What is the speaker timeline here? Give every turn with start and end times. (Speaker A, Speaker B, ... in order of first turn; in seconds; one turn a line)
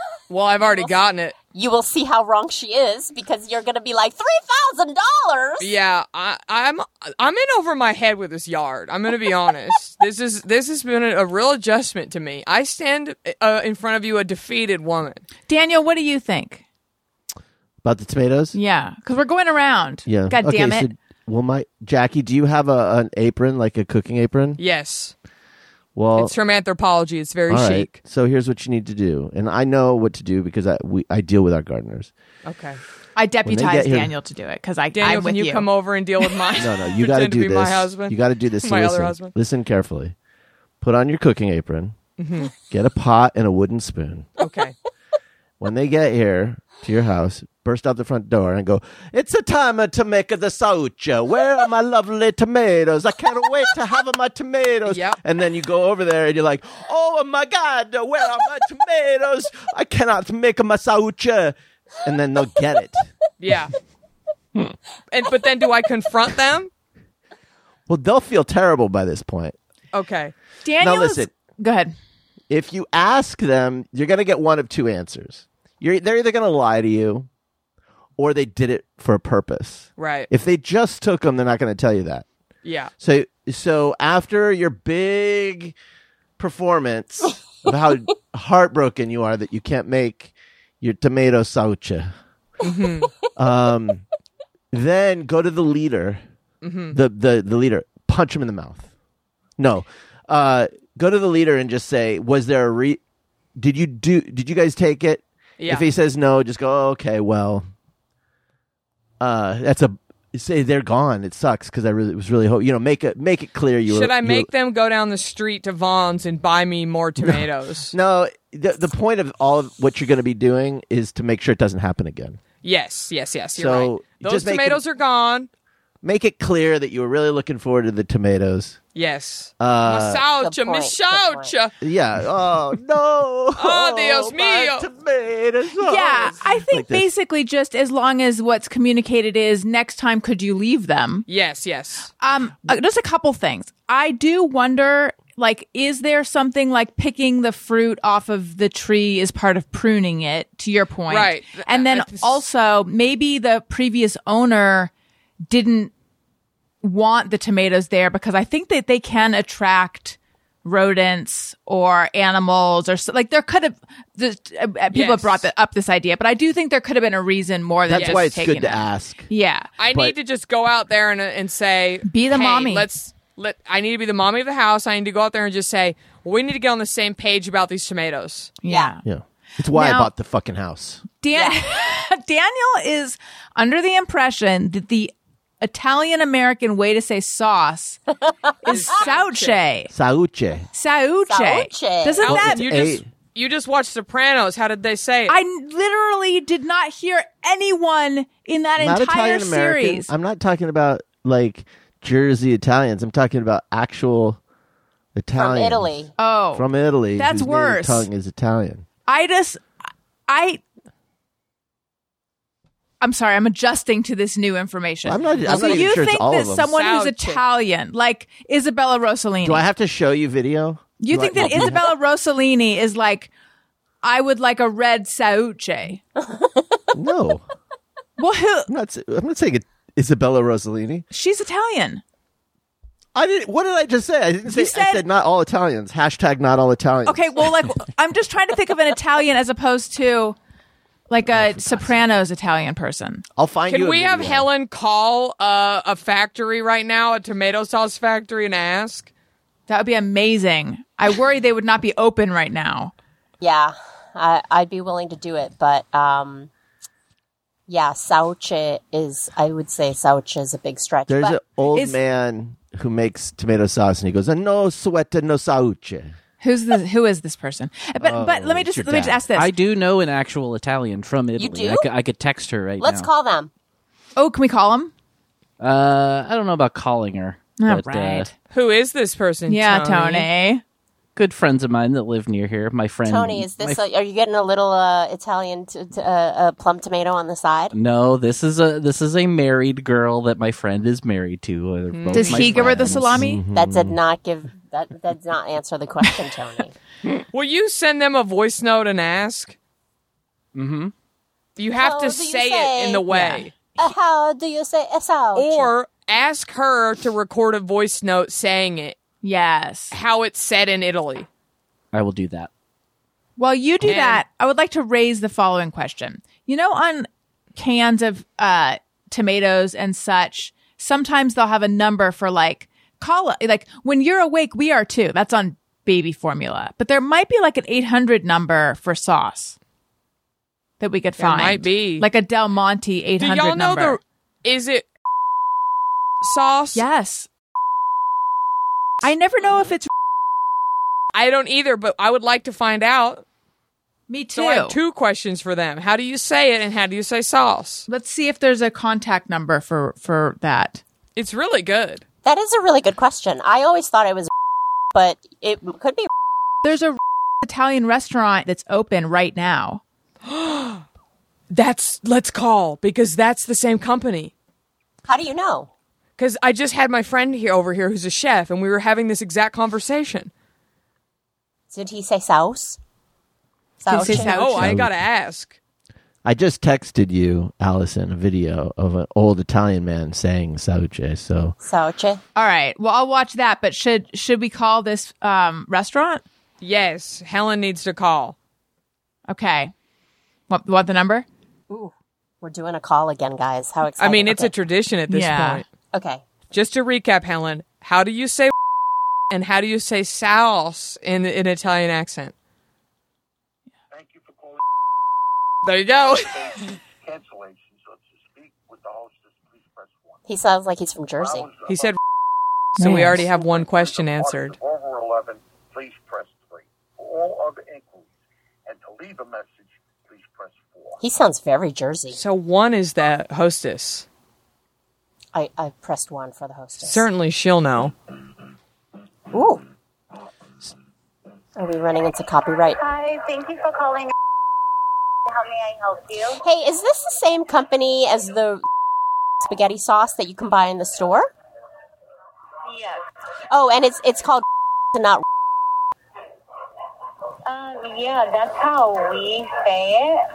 Speaker A: 0.3-1.4
Speaker B: 0.6-1.0
Speaker B: 1.5-5.7
Speaker A: 5.6-15.2
Speaker C: 15.5-16.6
Speaker D: 17.8-18.6
Speaker C: 18.5-20.9
Speaker D: 20.1-24.6
Speaker A: 24.6-25.1
Speaker D: 25.9-26.3
Speaker A: 26.1-28.0
Speaker D: 27.5-32.1
Speaker A: 32.4-32.8
Speaker C: 33.1-35.7
Speaker D: 33.4-34.1
Speaker A: 34.9-39.3
Speaker D: 36.6-40.1
Speaker D: 40.8-42.0
Speaker A: 42.2-42.5
Speaker D: 42.7-44.3
Speaker A: 44.4-44.7
Speaker D: 45.6-63.1
Speaker A: 54.9-55.2
Speaker A: 63.4-63.7
Speaker A: 65.1-66.7
Speaker D: 67.9-69.5
Speaker A: 69.9-70.3
Speaker C: 70.6-71.9
Speaker D: 70.8-71.3
Speaker D: 72.5-77.3
Speaker D: 78.2-82.3
Speaker A: 80.0-80.3
Speaker A: 82.6-82.9
Speaker D: 83.0-85.8
Speaker D: 86.4-92.1
Speaker A: 92.6-93.1
Speaker D: 93.4-94.0
Speaker D: 94.7-96.2
Speaker A: 96.6-97.0
Speaker D: 96.9-98.9
Speaker D: 99.6-103.0
Speaker D: 103.5-107.6
Speaker A: 105.6-105.8
Speaker D: 109.2-114.5
Speaker A: 113.9-117.9
Speaker D: 117.2-122.4
Speaker A: 122.6-125.5
Speaker D: 123.6-124.8
Speaker D: 126.0-128.8
Speaker A: 128.9-131.7
Speaker D: 129.6-130.2
Speaker B: 130.4-131.5
Speaker D: 131.8-137.1
Speaker A: 133.6-134.9
Speaker C: 135.8-141.2
Speaker A: 141.3-142.1
Speaker C: 142.2-154.9
Speaker A: 151.1-152.4
Speaker C: 155.5-155.9
Speaker C: 156.8-169.7
Speaker A: 164.9-165.4
Speaker D: 167.9-169.3
Speaker A: 167.9-168.3
Speaker A: 169.8-178.5
Speaker C: 172.0-172.8
Speaker C: 178.6-179.0
Speaker D: 179.0-181.0
Speaker C: 179.7-180.1
Speaker C: 181.2-188.0
Speaker B: 181.3-181.6
Speaker B: 188.3-188.9
Speaker C: 188.7-189.9
Speaker A: 188.7-189.6
Speaker D: 189.9-190.7
Speaker C: 190.7-192.6
Speaker B: 191.3-192.2
Speaker A: 192.2-195.3
Speaker D: 192.2-193.1
Speaker C: 195.3-200.1
Speaker D: 198.8-204.4
Speaker D: 205.1-205.9
Speaker B: 205.3-206.1
Speaker C: 206.2-208.1
Speaker D: 206.5-208.8
Speaker C: 209.1-209.6
Speaker C: 210.3-210.6
Speaker C: 213.0-219.6
Speaker D: 215.0-216.7
Speaker A: 215.3-215.9
Speaker A: 216.7-217.4
Speaker D: 219.4-221.9
Speaker C: 221.0-223.3
Speaker C: 224.0-226.0
Speaker B: 226.2-226.9
Speaker D: 226.9-227.4
Speaker C: 228.2-228.7
Speaker D: 228.7-231.0
Speaker C: 231.1-232.0
Speaker D: 233.1-237.5
Speaker C: 234.5-235.0
Speaker C: 237.1-240.4
Speaker C: 241.1-243.2
Speaker D: 241.3-242.0
Speaker D: 243.3-244.5
Speaker A: 243.7-249.1
Speaker C: 249.7-252.9
Speaker B: 253.4-256.5
Speaker B: 257.7-261.4
Speaker D: 261.1-266.1
Speaker C: 261.7-262.0
Speaker C: 266.4-269.5
Speaker D: 268.0-269.2
Speaker E: 268.9-273.1
Speaker B: 271.4-271.9
Speaker B: 272.8-273.5
Speaker C: 274.1-274.9
Speaker E: 275.6-278.3
Speaker C: 277.6-278.3
Speaker A: 278.5-280.3
Speaker C: 279.5-280.6
Speaker E: 281.1-283.8
Speaker B: 283.1-287.7
Speaker E: 287.7-293.2
Speaker A: 291.9-292.5
Speaker C: 292.1-293.4
Speaker D: 292.4-294.0
Speaker B: 293.5-296.7
Speaker A: 297.3-299.5
Speaker E: 300.5-300.9
Speaker A: 301.6-303.6
Speaker B: 301.7-303.1
Speaker C: 303.1-303.5
Speaker B: 303.8-305.7
Speaker A: 305.3-309.0
Speaker C: 309.2-309.9
Speaker A: 309.9-311.3
Speaker E: 311.9-312.5
Speaker C: 313.4-329.6
Speaker A: 313.8-314.2
Speaker C: 330.8-334.0
Speaker A: 331.2-332.1
Speaker A: 333.2-334.9
Speaker A: 336.2-336.8
Speaker C: 336.7-337.3
Speaker C: 339.0-339.9
Speaker A: 341.1-343.2
Speaker C: 344.1-344.8
Speaker A: 344.4-347.9
Speaker C: 347.9-350.8
Speaker A: 351.1-352.0
Speaker B: 352.2-354.3
Speaker B: 354.9-356.1
Speaker C: 356.6-359.8
Speaker A: 360.2-360.8
Speaker A: 361.5-364.3
Speaker B: 365.1-365.7
Speaker A: 366.2-370.3
Speaker B: 371.7-372.8
Speaker B: 373.8-374.4
Speaker C: 373.9-374.8
Speaker A: 374.1-375.6
Speaker D: 374.6-374.9
Speaker D: 376.2-381.6
Speaker B: 381.6-382.2
Speaker C: 382.3-386.2
Speaker A: 386.6-388.4
Speaker C: 389.3-389.7
Speaker C: 390.5-391.2
Speaker B: 391.7-394.5
Speaker A: 394.0-395.6
Speaker C: 395.1-395.6
Speaker B: 395.9-396.2
Speaker A: 396.5-398.5
Speaker A: 399.3-402.3
Speaker F: 403.9-404.6
Speaker A: 405.6-406.6
Speaker F: 405.9-410.1
Speaker B: 410.3-411.5
Speaker F: 411.2-411.9
Speaker A: 411.6-412.0
Speaker A: 412.8-414.6
Speaker C: 412.8-413.2
Speaker F: 413.3-418.1
Speaker F: 418.6-421.0
Speaker B: 421.0-422.2
Speaker A: 422.1-424.1
Speaker B: 425.3-427.1
Speaker A: 426.8-427.9
Speaker B: 429.3-429.6
Speaker B: 431.6-432.8
Speaker G: 432.8-434.1
Speaker G: 435.3-436.4
Speaker B: 436.4-438.6
Speaker B: 439.4-441.3
Speaker G: 442.7-443.0
Speaker B: 443.5-445.2
Speaker G: 447.5-450.2